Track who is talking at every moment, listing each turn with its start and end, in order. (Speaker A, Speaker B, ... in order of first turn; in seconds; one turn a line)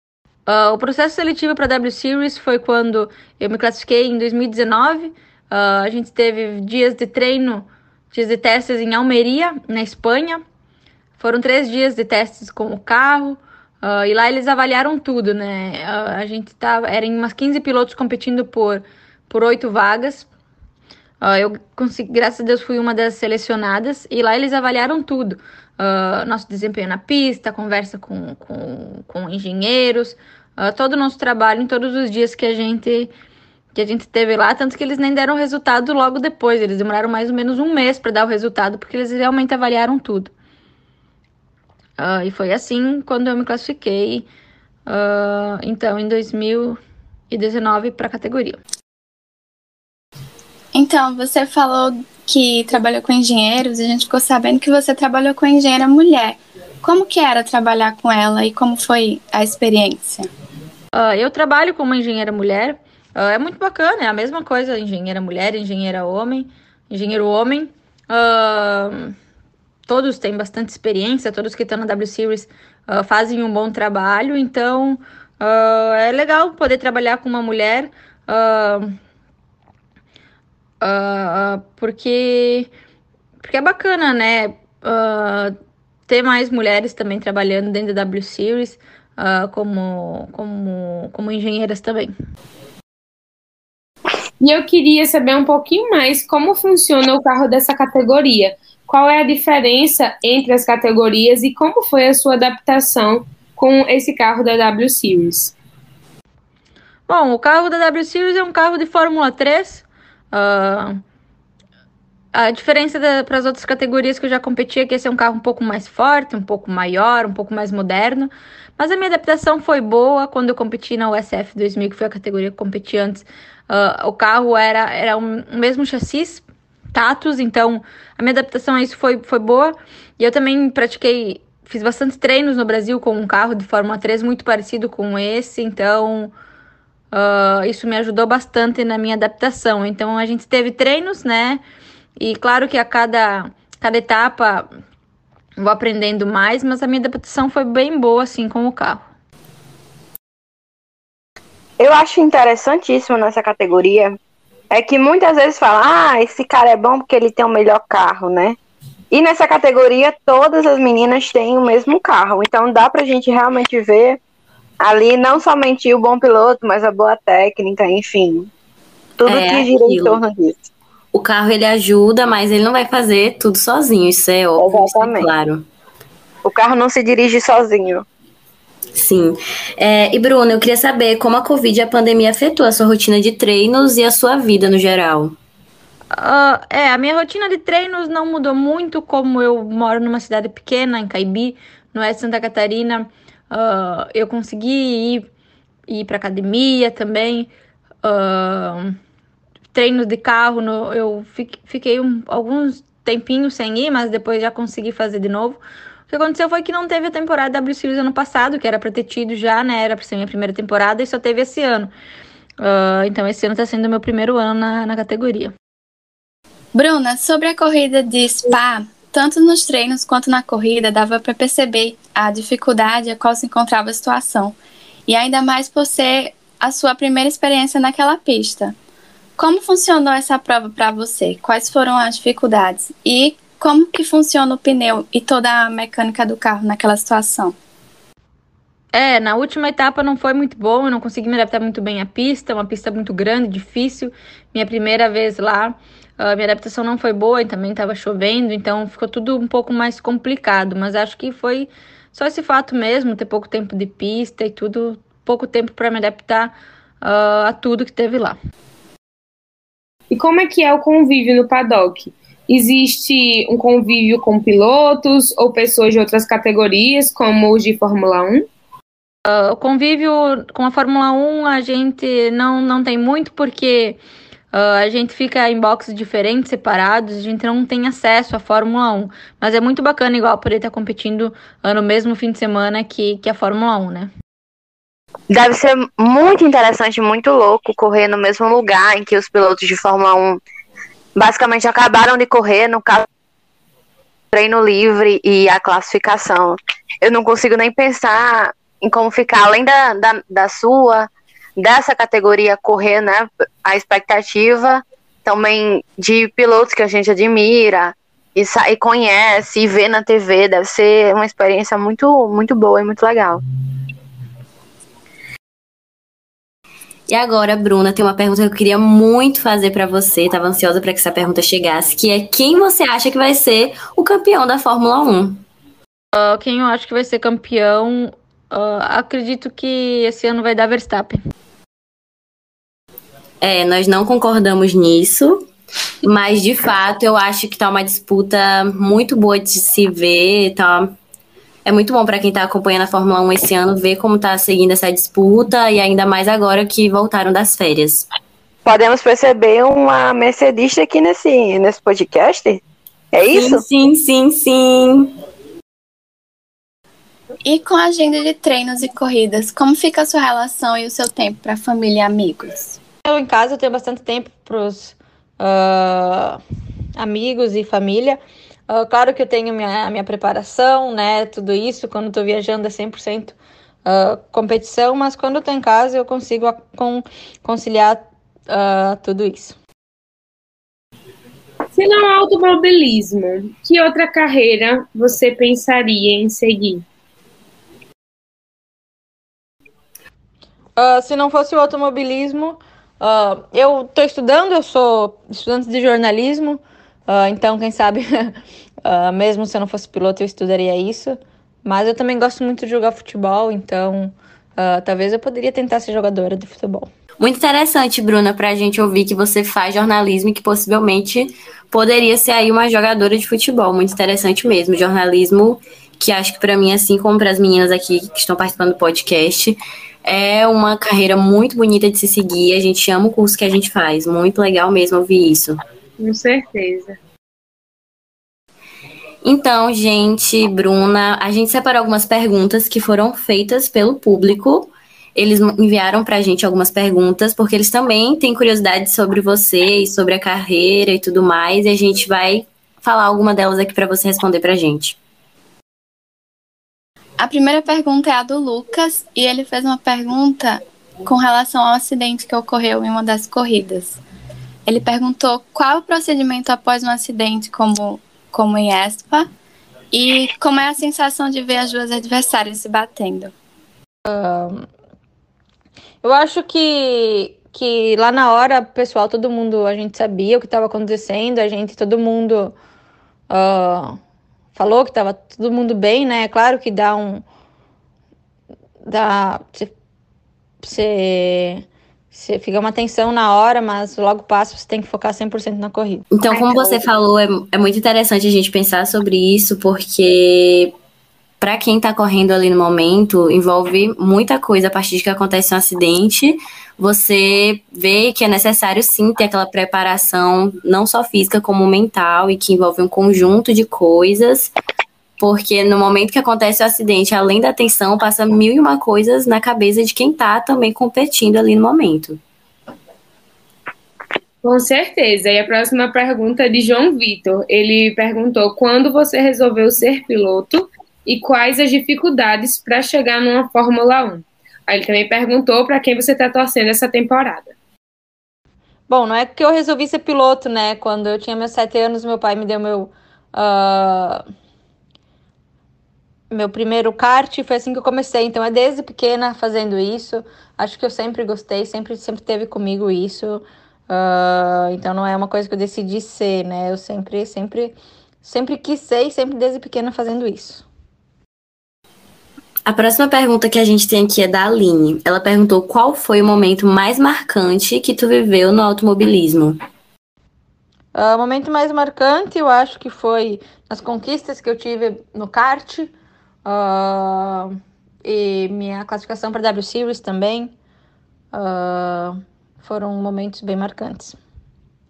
Speaker A: 0.5-10.4
Speaker A: 11.2-20.3
Speaker A: 21.2-33.1
Speaker A: 33.7-40.3
Speaker A: 42.0-44.2
Speaker A: 44.9-46.8
Speaker A: 47.3-48.6
Speaker B: 50.7-60.3
Speaker A: 60.9-69.1
Speaker A: 69.9-79.0
Speaker A: 80.8-82.7
Speaker A: 83.4-85.5
Speaker A: 86.1-92.1
Speaker C: 94.4-105.5
Speaker A: 107.1-111.0
Speaker A: 112.3-136.3
Speaker A: 137.1-141.6
Speaker A: 142.2-144.7
Speaker A: 145.6-149.1
Speaker D: 151.8-154.2
Speaker D: 154.7-158.6
Speaker D: 159.1-164.2
Speaker D: 164.8-168.5
Speaker D: 169.2-170.7
Speaker E: 169.2-170.2
Speaker E: 171.1-175.7
Speaker D: 174.6-175.3
Speaker D: 176.4-178.0
Speaker E: 178.9-185.3
Speaker A: 186.1-195.3
Speaker A: 195.9-197.5
Speaker A: 198.0-199.0
Speaker A: 199.7-211.9
Speaker A: 212.6-215.5
Speaker B: 216.7-224.6
Speaker B: 225.1-228.7
Speaker B: 229.4-237.6
Speaker A: 238.9-258.4
Speaker C: 260.1-268.5
Speaker A: 269.2-274.0
Speaker A: 274.5-284.1
Speaker D: 285.3-290.4
Speaker D: 291.1-293.1
Speaker D: 294.3-313.4
Speaker E: 317.1-325.4
Speaker A: 326.1-331.2
Speaker E: 333.4-335.4
Speaker E: 336.0-340.9
Speaker E: 341.6-348.1
Speaker D: 348.6-353.6
Speaker E: 353.3-355.1
Speaker B: 357.4-362.8
Speaker A: 363.1-366.4
Speaker A: 367.0-379.6
Speaker C: 381.7-386.8
Speaker A: 390.8-406.9
Speaker E: 407.2-425.6
Speaker C: 426.0-427.0
Speaker E: 429.2-445.0
Speaker B: 447.2-454.0
Speaker B: 454.6-459.3
Speaker B: 459.9-463.3
Speaker A: 464.1-464.7
Speaker A: 466.0-472.5
Speaker A: 473.3-474.0
Speaker A: 474.5-477.2
Speaker A: 478.8-479.7
Speaker A: 480.6-486.0
Speaker E: 486.1-490.7
Speaker D: 486.3-486.9
Speaker E: 491.4-504.5
Speaker E: 505.2-512.2
Speaker C: 514.4-527.5
Speaker A: 528.9-534.2
Speaker A: 536.3-550.6
Speaker E: 552.6-559.6
Speaker A: 560.9-565.9
Speaker A: 566.4-570.5
Speaker A: 571.3-574.2